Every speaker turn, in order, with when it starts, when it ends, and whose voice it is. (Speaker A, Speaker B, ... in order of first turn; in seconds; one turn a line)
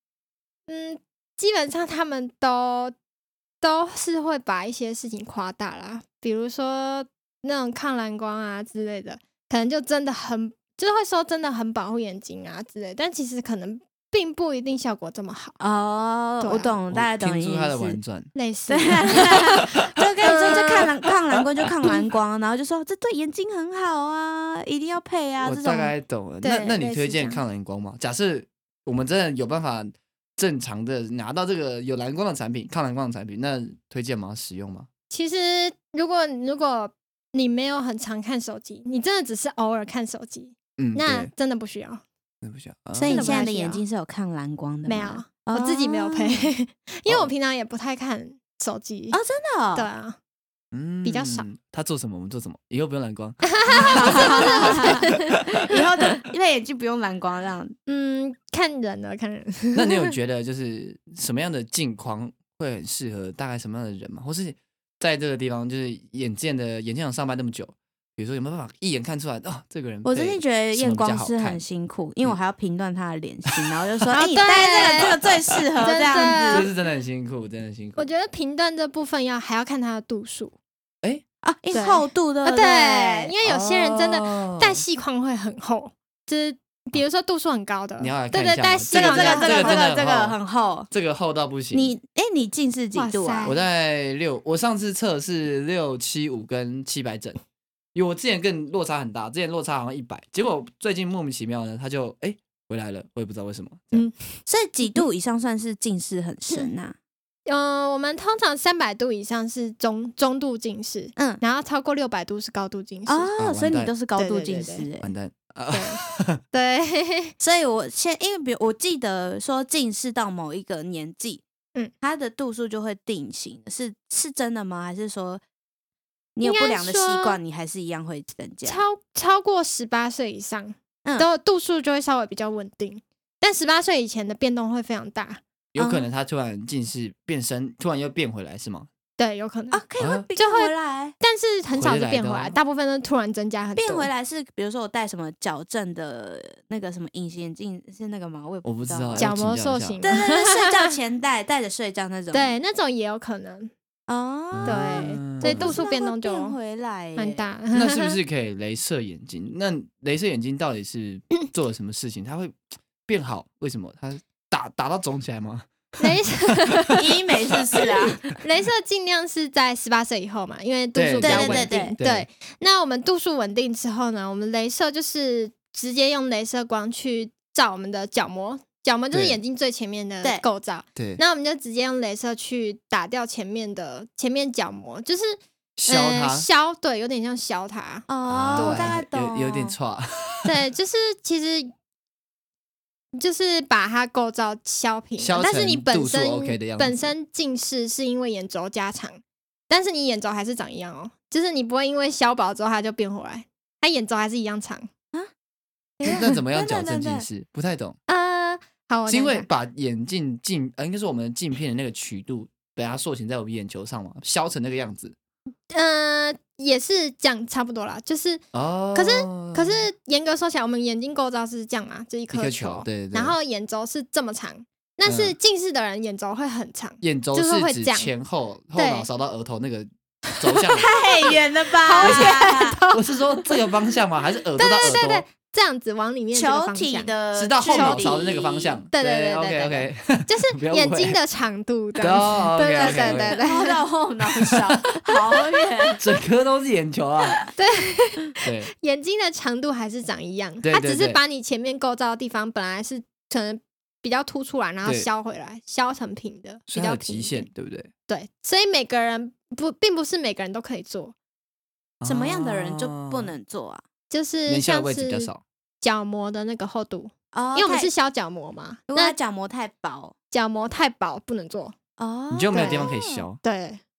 Speaker A: 0.7-2.9
Speaker A: 3.6-15.6
Speaker B: 15.6-18.0
Speaker A: 16.4-16.8
Speaker C: 16.9-18.3
Speaker A: 18.3-19.7
Speaker B: 18.7-25.9
Speaker A: 20.2-20.9
Speaker C: 25.4-34.9
Speaker A: 26.4-27.4
Speaker A: 35.1-42.0
Speaker C: 40.8-41.3
Speaker C: 42.4-43.4
Speaker B: 43.0-46.5
Speaker A: 43.0-43.8
Speaker A: 44.9-49.2
Speaker B: 49.1-49.9
Speaker A: 49.7-50.2
Speaker C: 50.7-55.4
Speaker A: 51.0-51.5
Speaker A: 53.4-55.8
Speaker B: 53.7-57.7
Speaker A: 57.9-60.1
Speaker C: 59.7-71.6
Speaker B: 70.0-76.7
Speaker A: 74.1-75.2
Speaker A: 75.8-76.7
Speaker C: 76.4-78.1
Speaker A: 78.0-80.5
Speaker B: 81.4-83.3
Speaker A: 81.7-89.9
Speaker C: 83.4-84.8
Speaker C: 88.0-90.4
Speaker B: 88.9-90.9
Speaker C: 90.9-91.9
Speaker B: 91.7-93.5
Speaker A: 92.9-93.6
Speaker C: 93.4-97.4
Speaker C: 97.9-104.1
Speaker A: 103.9-104.4
Speaker B: 104.5-107.0
Speaker A: 107.5-113.3
Speaker B: 111.2-111.4
Speaker B: 113.1-115.1
Speaker C: 113.4-113.9
Speaker A: 114.2-114.9
Speaker C: 115.0-116.4
Speaker A: 115.7-116.0
Speaker A: 116.5-117.3
Speaker B: 117.4-121.4
Speaker B: 122.0-125.4
Speaker B: 126.3-128.8
Speaker A: 126.4-127.4
Speaker A: 128.7-135.4
Speaker C: 135.7-138.9
Speaker B: 135.8-136.1
Speaker A: 139.2-139.8
Speaker B: 139.7-141.2
Speaker C: 140.0-140.3
Speaker A: 140.3-144.1
Speaker C: 141.7-142.6
Speaker B: 143.8-149.3
Speaker C: 148.6-150.0
Speaker A: 149.2-150.8
Speaker B: 150.0-152.5
Speaker A: 152.3-153.7
Speaker B: 154.1-157.5
Speaker C: 154.5-155.8
Speaker A: 154.7-156.6
Speaker A: 157.2-158.2
Speaker C: 157.7-166.1
Speaker A: 166.0-167.0
Speaker C: 166.7-167.0
Speaker B: 167.0-168.2
Speaker A: 167.8-189.0
Speaker C: 170.9-172.2
Speaker B: 171.2-171.9
Speaker C: 179.1-179.4
Speaker C: 180.9-181.2
Speaker C: 185.8-186.5
Speaker B: 188.1-189.7
Speaker C: 188.3-190.5
Speaker A: 190.4-191.7
Speaker A: 193.2-204.9
Speaker C: 195.2-197.1
Speaker B: 206.0-207.3
Speaker A: 206.0-206.3
Speaker C: 206.1-208.0
Speaker A: 208.1-209.5
Speaker C: 209.1-215.1
Speaker A: 215.7-218.4
Speaker C: 218.5-219.9
Speaker A: 218.9-228.1
Speaker C: 222.3-223.3
Speaker C: 225.0-225.3
Speaker C: 227.0-230.9
Speaker A: 228.7-229.1
Speaker B: 230.7-232.8
Speaker A: 231.2-233.6
Speaker C: 232.0-232.4
Speaker C: 232.9-235.2
Speaker A: 234.6-237.1
Speaker B: 236.3-238.8
Speaker C: 237.3-241.2
Speaker A: 237.7-238.3
Speaker A: 238.9-243.8
Speaker C: 242.0-243.4
Speaker B: 242.7-245.9
Speaker C: 246.0-247.5
Speaker A: 247.5-257.5
Speaker C: 248.4-248.7
Speaker C: 250.6-251.2
Speaker C: 256.7-257.9
Speaker A: 258.1-261.1
Speaker C: 262.0-263.3
Speaker B: 262.0-263.8
Speaker A: 264.1-269.1
Speaker C: 264.5-265.4
Speaker B: 267.3-267.9
Speaker B: 268.9-270.1
Speaker A: 270.3-271.7
Speaker B: 272.0-273.2
Speaker C: 272.3-273.4
Speaker A: 272.5-272.9
Speaker A: 273.4-273.8